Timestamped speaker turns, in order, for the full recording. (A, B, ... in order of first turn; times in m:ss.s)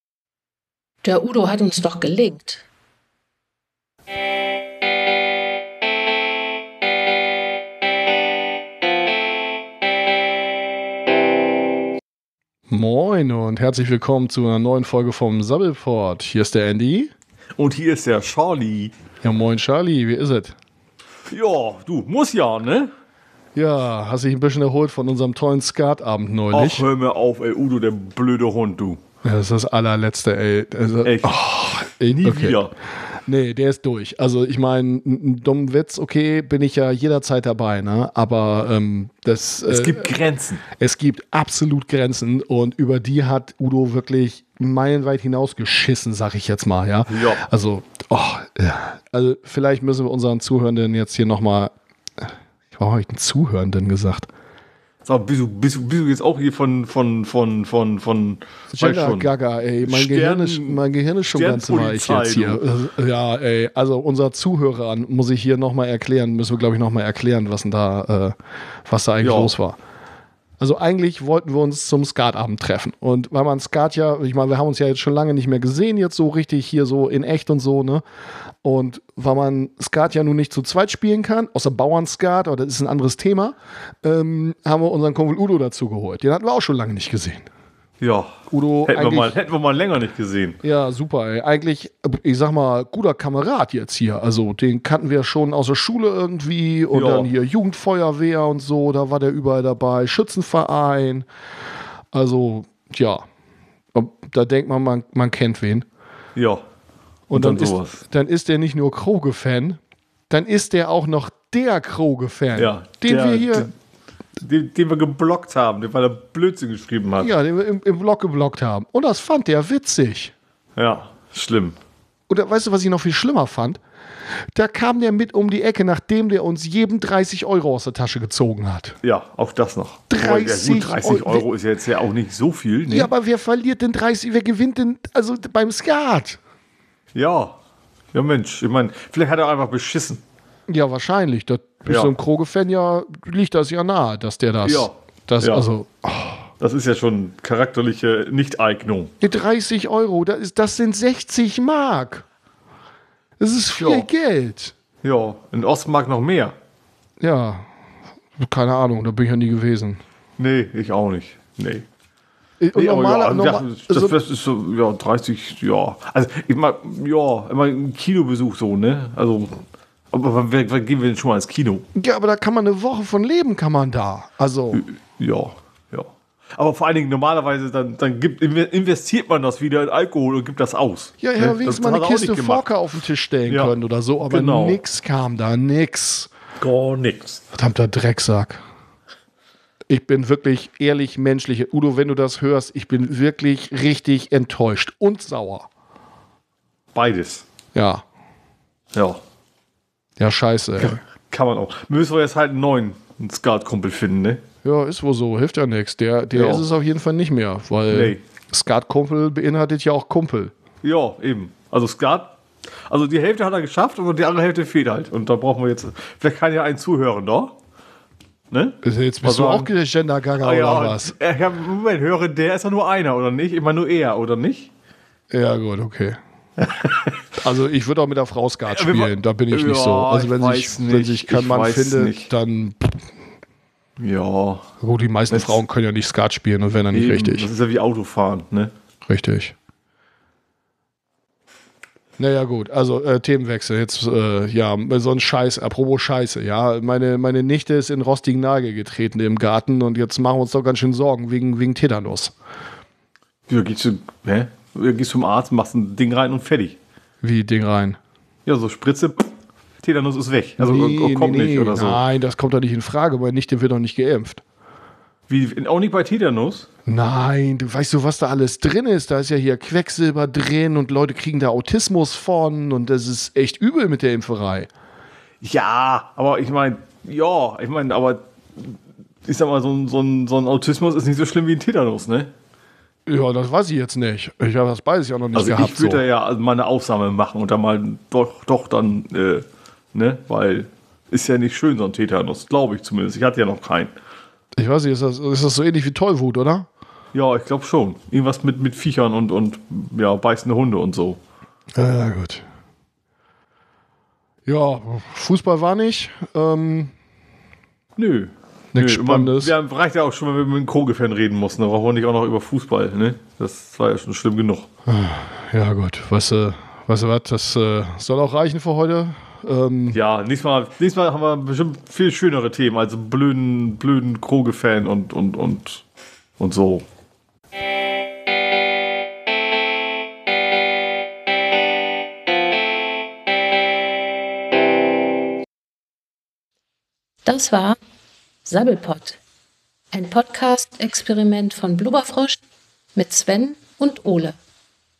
0:01.0-0:02.6 A
0:12.7-0:17.1 B
0:17.6-0:18.9 C
0:19.2-0:20.6 B
0:21.3-0:22.9 C
0:23.5-0:26.9 B
0:26.5-0:29.0 C
0:29.2-0:32.7 B
0:31.0-0:31.4 C
0:32.0-0:32.7 C
0:33.2-0:40.1 B
0:39.7-0:40.6 C
0:40.7-0:54.3 B
0:47.1-0:47.4 C
0:55.0-0:59.3 C
0:58.7-1:09.8 B
0:59.8-1:02.6 C
1:09.2-1:09.5 C
1:10.6-1:18.0 B
1:18.6-1:27.5 B
1:28.0-1:30.6 C
1:28.5-1:29.4 B
1:30.6-1:41.3 B
1:36.9-1:37.3 C
1:42.1-1:43.2 B
1:43.9-1:45.8 B
1:46.3-1:46.6 C
1:47.3-1:53.7 B
1:47.3-1:48.0 C
1:52.5-1:53.7 C
1:54.4-1:57.3 C
1:57.2-2:00.3 B
2:00.8-2:01.8 C
2:02.3-2:03.8 B
2:04.5-2:09.0 B
2:09.0-2:13.1 C
2:10.1-2:11.5 B
2:12.9-2:16.4 B
2:17.1-2:17.5 C
2:18.1-2:20.2 C
2:20.7-2:26.5 B
2:21.9-2:22.2 C
2:24.6-2:25.7 C
2:26.6-2:29.1 C
2:29.2-2:32.2 B
2:33.4-2:34.7 B
2:33.8-2:34.1 C
2:35.0-2:36.5 C
2:37.2-2:37.7 B
2:38.4-2:40.0 B
2:40.4-2:41.8 C
2:42.6-2:44.2 B
2:42.7-2:49.6 C
2:50.1-2:51.8 C
2:51.9-2:54.8 B
2:54.7-3:04.8 C
3:01.2-3:06.3 B
3:06.6-3:07.4 C
3:07.5-3:08.6 B
3:09.9-3:15.7 B
3:16.9-3:17.4 C
3:17.7-3:18.0 B
3:18.9-3:19.2 C
3:20.2-3:21.0 B
3:20.8-3:24.4 C
3:24.6-3:30.5 B
3:26.3-3:26.6 C
3:27.9-3:28.2 C
3:30.8-3:32.3 C
3:32.9-3:37.5 C
3:38.5-3:39.7 C
3:38.8-3:41.2 B
3:40.4-3:44.7 C
3:45.3-3:46.2 B
3:46.6-3:47.2 C
3:47.3-3:53.1 B
3:48.7-3:52.3 C
3:54.0-3:54.7 C
3:54.8-3:57.5 B
3:55.3-3:55.6 C
3:56.9-3:58.7 C
3:59.0-3:59.5 B
4:02.2-4:12.3 B
4:13.5-4:16.8 C
4:17.2-4:18.0 B
4:18.4-4:19.3 C
4:19.8-4:22.0 C
4:20.6-4:24.4 B
4:25.3-4:26.7 C
4:26.8-4:34.7 B
4:35.4-4:42.3 C
4:43.0-4:46.0 B
4:45.3-4:53.9 C
4:54.5-4:56.7 B
4:57.1-5:01.2 C
5:01.7-5:02.4 B
5:04.4-5:06.9 B
5:08.0-5:14.7 C
5:08.7-5:09.5 B
5:14.8-5:20.0 B
5:19.9-5:25.8 C
5:26.4-5:26.8 C
5:37.2-5:37.8 A
5:38.4-5:39.2 A
5:39.9-5:42.4 A
5:42.9-5:44.4 A